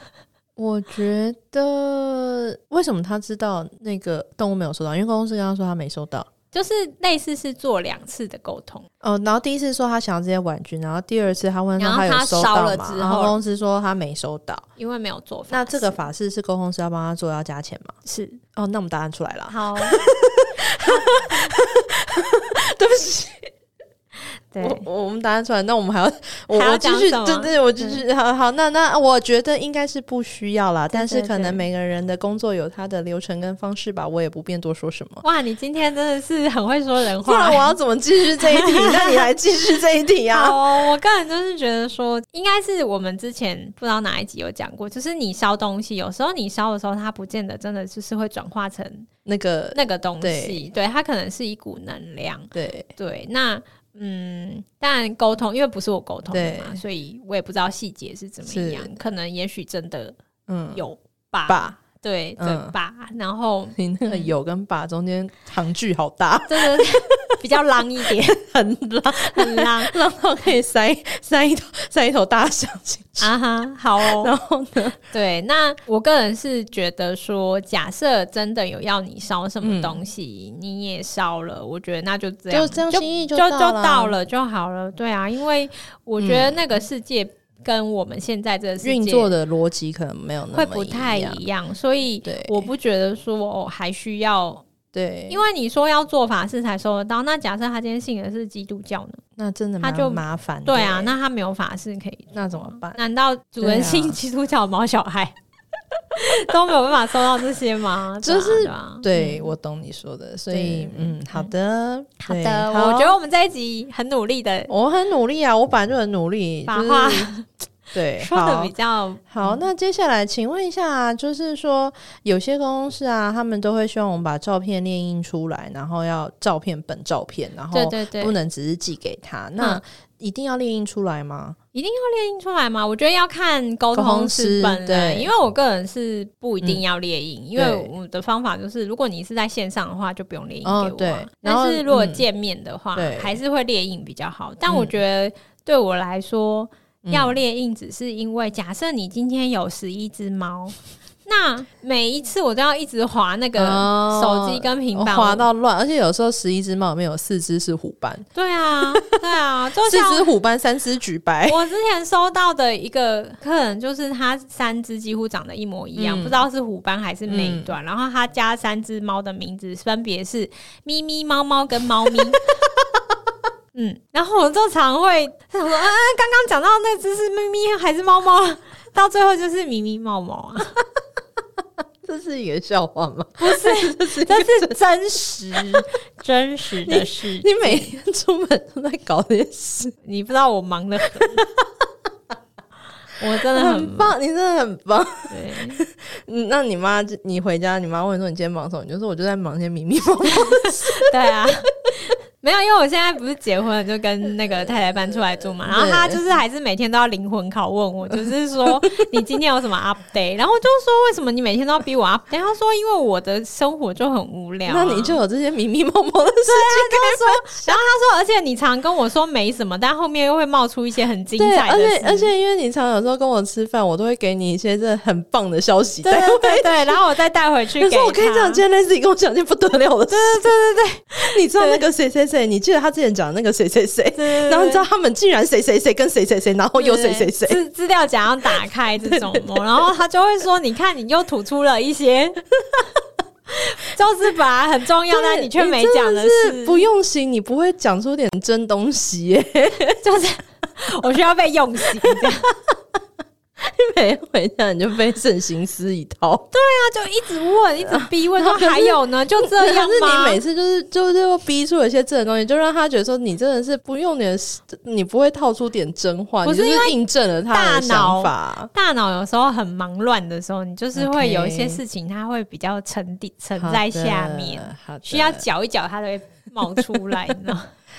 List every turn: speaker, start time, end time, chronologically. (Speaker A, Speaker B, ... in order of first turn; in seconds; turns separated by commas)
Speaker A: 0.6-6.3, Speaker B: 6.5-8.9, Speaker A: 9.0-14.7, Speaker B: 11.8-13.4, Speaker B: 14.8-16.1, Speaker A: 15.5-17.9, Speaker B: 18.0-18.4, Speaker A: 18.5-23.5, Speaker B: 19.5-20.0, Speaker B: 20.9-21.2, Speaker B: 24.5-24.9, Speaker A: 24.6-35.2, Speaker B: 26.5-28.0, Speaker B: 30.9-31.6, Speaker B: 35.2-37.7, Speaker A: 37.2-40.6, Speaker B: 38.4-39.3, Speaker B: 40.3-49.1, Speaker A: 49.2-50.6, Speaker B: 49.7-60.1, Speaker A: 52.5-52.9, Speaker A: 56.3-56.8, Speaker A: 58.5-58.9, Speaker A: 60.5-60.8, Speaker B: 60.7-64.3, Speaker A: 61.5-61.7, Speaker A: 62.4-62.7, Speaker A: 63.8-67.4, Speaker B: 66.5-68.4, Speaker A: 68.1-73.3, Speaker B: 69.1-70.0, Speaker B: 73.2-74.3, Speaker A: 74.0-75.0, Speaker B: 75.1-89.3, Speaker A: 79.6-80.0, Speaker A: 82.5-84.2, Speaker A: 86.2-86.8, Speaker A: 88.8-91.4, Speaker B: 90.5-94.7, Speaker A: 92.2-92.7, Speaker A: 94.9-95.4, Speaker B: 95.3-99.2, Speaker A: 99.4-101.2, Speaker B: 99.8-105.3, Speaker A: 102.3-103.0, Speaker A: 103.6-104.2, Speaker B: 106.1-109.5, Speaker A: 108.2-113.2, Speaker B: 110.5-111.5, Speaker B: 112.2-114.7, Speaker A: 114.7-117.3, Speaker B: 116.7-117.4, Speaker A: 117.9-118.7, Speaker B: 118.2-119.6, Speaker A: 119.3-131.6, Speaker B: 127.7-128.3, Speaker B: 131.7-150.7, Speaker A: 133.9-135.3, Speaker A: 137.6-137.9, Speaker A: 140.6-142.2, Speaker A: 142.9-143.4, Speaker A: 144.7-144.9, Speaker A: 147.0-147.4, Speaker B: 151.2-155.4, Speaker A: 153.6-158.2, Speaker B: 158.3-160.3, Speaker A: 159.8-161.6, Speaker B: 161.5-172.4, Speaker A: 166.0-166.4, Speaker A: 167.3-167.8, Speaker B: 173.7-180.8, Speaker A: 182.0-184.8, Speaker B: 183.4-187.9, Speaker A: 185.6-185.8, Speaker A: 186.8-189.9, Speaker B: 190.0-191.4, Speaker A: 191.2-191.6, Speaker B: 193.2-194.1, Speaker A: 193.5-201.5, Speaker B: 195.3-195.8, Speaker B: 200.3-215.2, Speaker A: 204.4-206.2, Speaker A: 214.7-217.8, Speaker B: 216.4-222.3, Speaker A: 221.4-227.0, Speaker B: 226.0-228.6, Speaker A: 227.8-230.5, Speaker B: 230.1-231.9, Speaker A: 231.2-237.6, Speaker B: 234.1-234.8, Speaker B: 236.8-242.4, Speaker A: 239.0-239.8, Speaker B: 243.5-246.8, Speaker A: 245.1-250.0, Speaker B: 250.0-252.5, Speaker A: 252.0-252.8, Speaker A: 253.6-256.5, Speaker B: 256.5-260.4, Speaker A: 257.9-268.7, Speaker B: 266.4-266.9, Speaker B: 267.5-277.7, Speaker A: 270.9-271.8, Speaker A: 273.6-275.4